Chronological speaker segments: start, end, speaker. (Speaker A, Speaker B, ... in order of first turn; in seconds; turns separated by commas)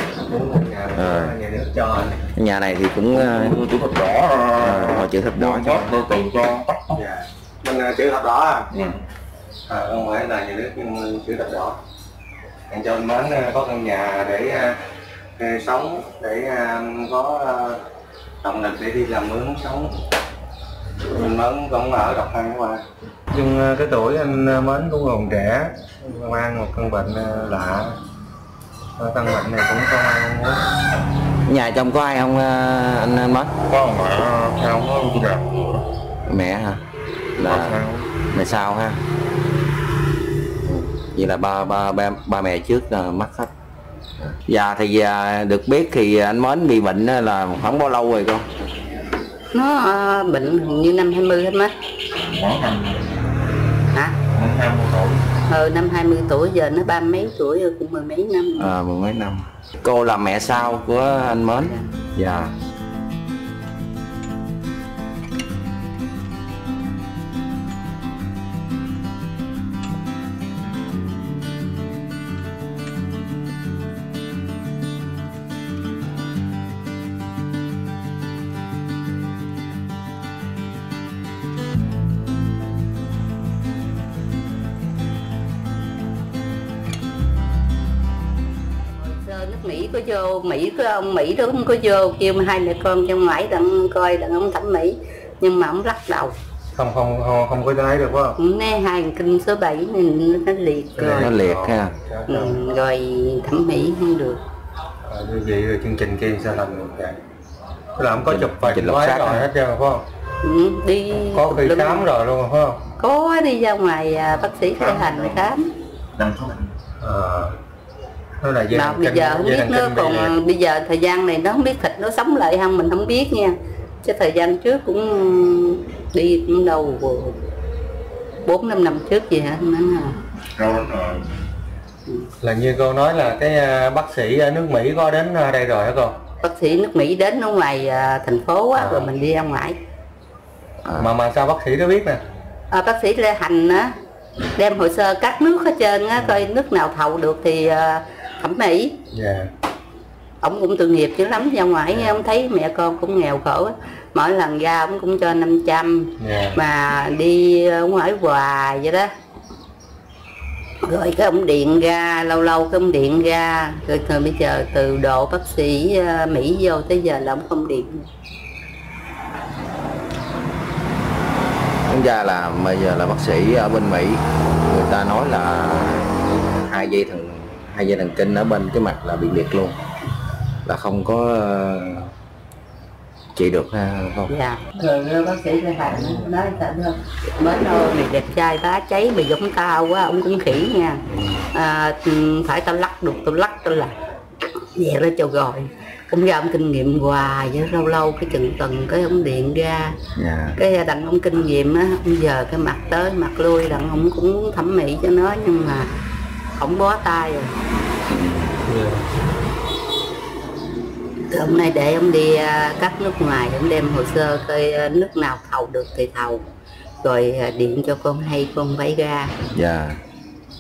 Speaker A: 0.3-2.2, Speaker B: 1.0-1.4, Speaker B: 2.4-3.6, Speaker C: 3.1-7.0, Speaker B: 4.6-6.1, Speaker A: 7.0-8.7, Speaker C: 8.7-9.0, Speaker A: 9.7-11.8, Speaker A: 12.7-14.8, Speaker A: 15.4-17.8, Speaker A: 18.4-19.9, Speaker A: 21.1-28.0, Speaker A: 29.0-30.6, Speaker B: 31.5-33.5, Speaker C: 33.7-35.9, Speaker B: 36.3-36.8, Speaker B: 37.4-37.8, Speaker C: 37.4-38.1, Speaker B: 38.3-39.0, Speaker B: 40.6-43.5, Speaker B: 44.2-48.5, Speaker D: 49.5-51.7, Speaker C: 52.2-53.0, Speaker D: 53.9-54.2, Speaker C: 54.3-55.2, Speaker D: 55.5-58.7, Speaker B: 58.6-62.5, Speaker D: 89.0-96.3, Speaker A: 96.7-98.4, Speaker D: 98.4-101.4, Speaker A: 101.0-102.6, Speaker B: 101.1-102.0, Speaker D: 102.3-104.4, Speaker A: 105.0-107.2, Speaker A: 108.0-110.0, Speaker B: 108.3-109.5, Speaker D: 110.4-112.1, Speaker A: 111.3-112.8, Speaker D: 112.9-115.7, Speaker C: 115.0-115.5, Speaker C: 116.2-116.6, Speaker A: 117.0-117.6, Speaker A: 118.4-120.4, Speaker D: 118.7-127.4, Speaker D: 128.4-130.2, Speaker C: 130.5-131.3, Speaker A: 132.4-136.2, Speaker D: 136.4-139.8, Speaker A: 138.8-139.1, Speaker B: 140.8-141.1, Speaker A: 141.0-142.2, Speaker D: 142.7-143.9, Speaker D: 144.6-149.0, Speaker A: 146.2-146.5, Speaker A: 149.1-149.5, Speaker D: 150.4-159.1, Speaker A: 151.9-152.2, Speaker A: 156.2-156.6, Speaker D: 160.8-168.1, Speaker B: 171.9-179.8, Speaker B: 180.7-182.1, Speaker B: 183.3-184.3, Speaker D: 184.3-191.0, Speaker D: 191.5-194.0, Speaker D: 194.6-200.0, Speaker B: 200.2-200.6, Speaker D: 200.6-205.9, Speaker D: 206.6-207.5, Speaker B: 208.1-208.6, Speaker A: 208.7-209.0, Speaker D: 211.3-216.4, Speaker D: 217.0-219.3, Speaker B: 219.5-220.0